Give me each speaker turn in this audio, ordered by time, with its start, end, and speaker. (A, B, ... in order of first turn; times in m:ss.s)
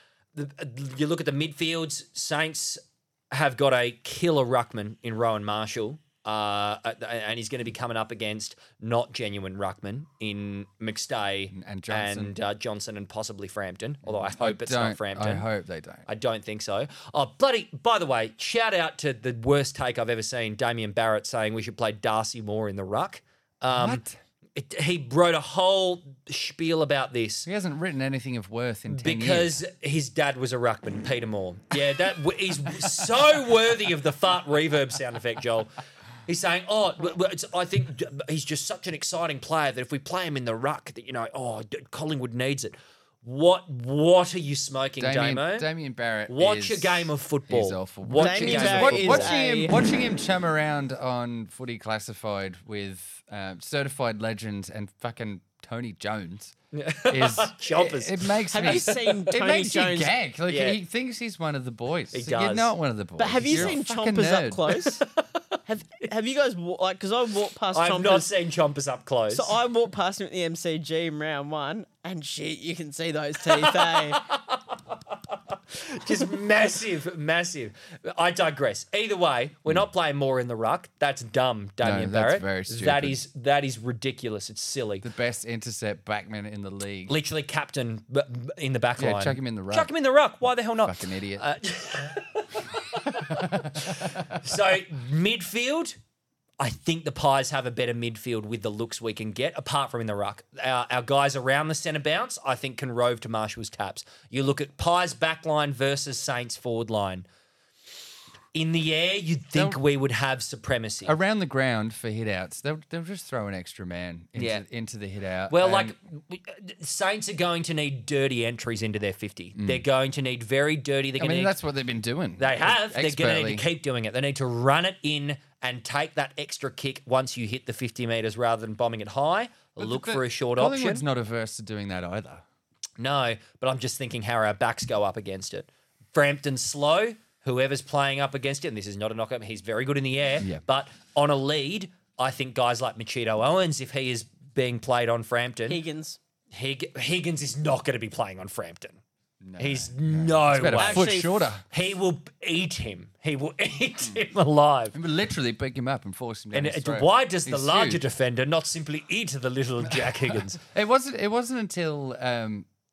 0:00.4-0:15.5 A
0:11.5-0:12.4 B
0:14.1-0:16.1 B
0:16.1-0:24.0 A
0:23.7-0:24.2 B
0:24.6-0:27.5 A
0:27.5-0:29.6 B
0:28.9-0:35.7 A
0:36.3-0:45.7 A
0:45.0-0:56.6 B
0:46.3-0:49.3 A
0:48.2-0:49.7 C
0:56.7-0:59.0 A
0:57.1-1:04.6 B
0:58.5-1:00.1 C
1:00.5-1:00.8 A
1:02.1-1:02.7 A
1:03.2-1:05.0 C
1:03.4-1:03.8 A
1:04.7-1:05.2 A
1:05.7-1:08.3 C
1:07.7-1:09.6 A
1:09.3-1:14.3 C
1:13.5-1:14.8 A
1:15.5-1:25.1 A
1:21.8-1:23.2 B
1:25.0-1:27.2 B
1:27.1-1:36.0 A
1:29.0-1:29.9 B
1:30.8-1:31.4 B
1:32.7-1:34.5 B
1:36.6-1:47.2 A
1:48.5-1:51.1 A
1:49.6-1:49.8 B
1:51.0-1:55.9 B
1:54.4-1:54.6 A
1:55.5-2:01.5 A
1:59.6-1:59.8 B
2:01.2-2:03.6 B
2:02.4-2:11.0 A
2:09.8-2:12.4 B
2:13.0-2:25.8 A
2:25.7-2:26.2 C
2:26.5-2:29.0 A
2:29.4-2:31.6 B
2:29.6-2:31.1 A
2:30.6-2:31.5 C
2:31.7-2:35.0 A
2:34.9-2:38.0 B
2:36.5-2:40.6 A
2:39.9-2:42.7 B